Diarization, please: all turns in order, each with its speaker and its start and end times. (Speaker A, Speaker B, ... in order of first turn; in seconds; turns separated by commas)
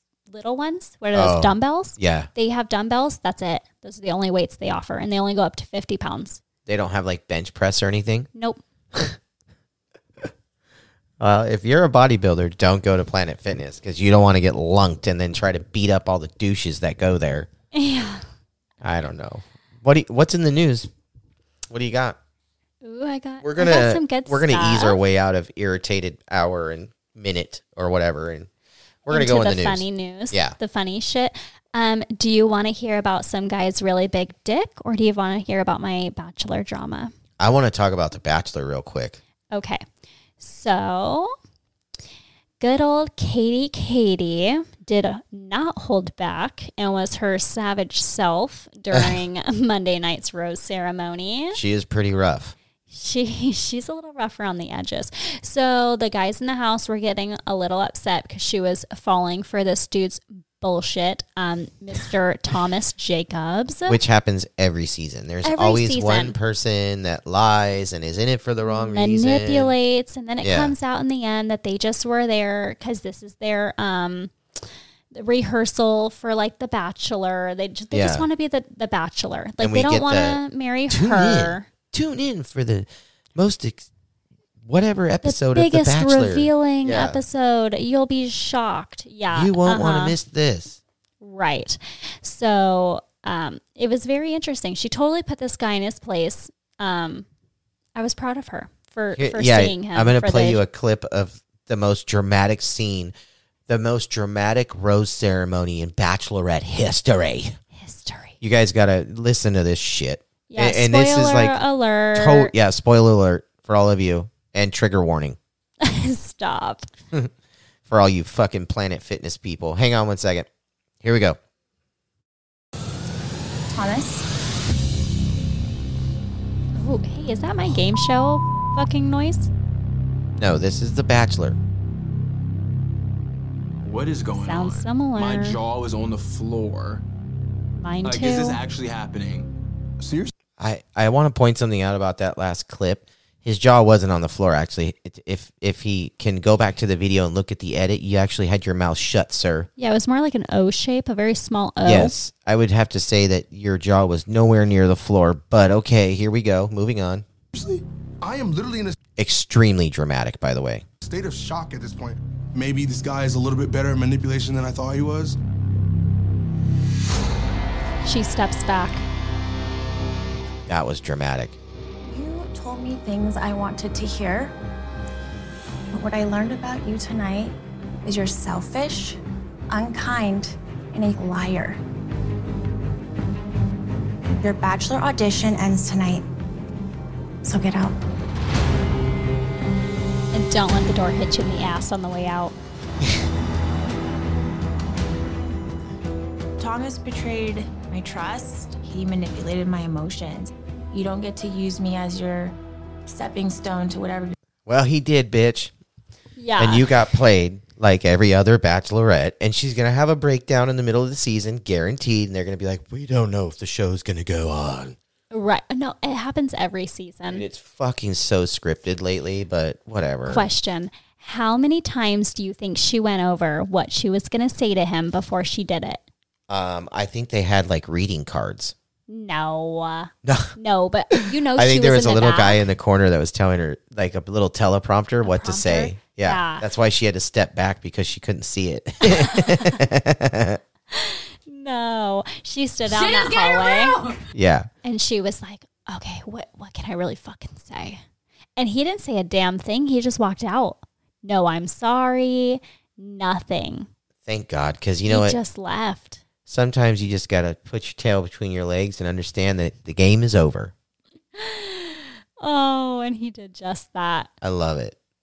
Speaker A: 0.3-6.4, Speaker B: 1.1-2.3, Speaker B: 6.7-8.3, Speaker A: 8.3-8.6, Speaker B: 11.2-17.5, Speaker A: 17.7-18.3, Speaker B: 18.8-20.9, Speaker B: 21.7-22.2, Speaker A: 22.8-25.0, Speaker B: 23.4-28.5, Speaker B: 29.1-30.6, Speaker A: 29.1-37.1, Speaker B: 37.4-39.2, Speaker A: 39.5-39.8, Speaker A: 40.4-41.3, Speaker A: 42.6-51.6, Speaker B: 48.9-49.2, Speaker B: 51.5-52.5, Speaker A: 52.9-64.0, Speaker B: 63.9-69.7, Speaker A: 65.4-66.4, Speaker A: 68.7-81.7, Speaker B: 70.4-70.7, Speaker B: 77.9-78.3, Speaker B: 79.6-83.9, Speaker B: 84.6-87.2, Speaker A: 85.2-90.2, Speaker B: 89.3-90.8, Speaker A: 91.2-97.3, Speaker A: 98.0-100.6, Speaker B: 99.2-103.1, Speaker B: 103.7-107.6, Speaker A: 107.8-108.4, Speaker B: 108.4-111.6, Speaker A: 110.5-112.5, Speaker B: 112.1-115.4, Speaker A: 115.8-116.9, Speaker B: 117.9-120.5, Speaker B: 121.0-121.4, Speaker C: 123.7-124.3, Speaker A: 126.8-129.5, Speaker B: 130.4-131.6, Speaker D: 133.8-137.0, Speaker A: 134.4-135.6, Speaker A: 137.8-138.6, Speaker D: 138.0-139.5, Speaker B: 140.6-149.7, Speaker A: 149.8-152.1, Speaker B: 151.8-157.3, Speaker E: 157.5-158.9, Speaker B: 159.2-160.8, Speaker E: 161.0-165.4, Speaker A: 168.0-169.0, Speaker B: 170.7-171.6, Speaker C: 172.1-174.5, Speaker C: 175.9-181.8, Speaker C: 184.4-186.3, Speaker C: 187.4-188.0, Speaker A: 190.3-192.6, Speaker C: 196.6-204.3, Speaker B: 204.7-205.7, Speaker A: 206.4-206.9, Speaker B: 206.6-215.0, Speaker A: 215.3-217.5, Speaker B: 217.3-220.4, Speaker A: 220.3-226.0, Speaker B: 226.5-228.8, Speaker A: 229.1-232.6, Speaker B: 230.2-230.6, Speaker B: 231.1-240.6, Speaker A: 235.2-236.7, Speaker A: 239.1-239.8, Speaker A: 240.9-244.0, Speaker B: 244.3-244.7, Speaker A: 244.8-248.0, Speaker A: 248.6-253.9, Speaker B: 254.3-255.4, Speaker A: 255.1-256.2, Speaker B: 256.5-260.7, Speaker A: 261.4-264.3, Speaker B: 264.4-265.0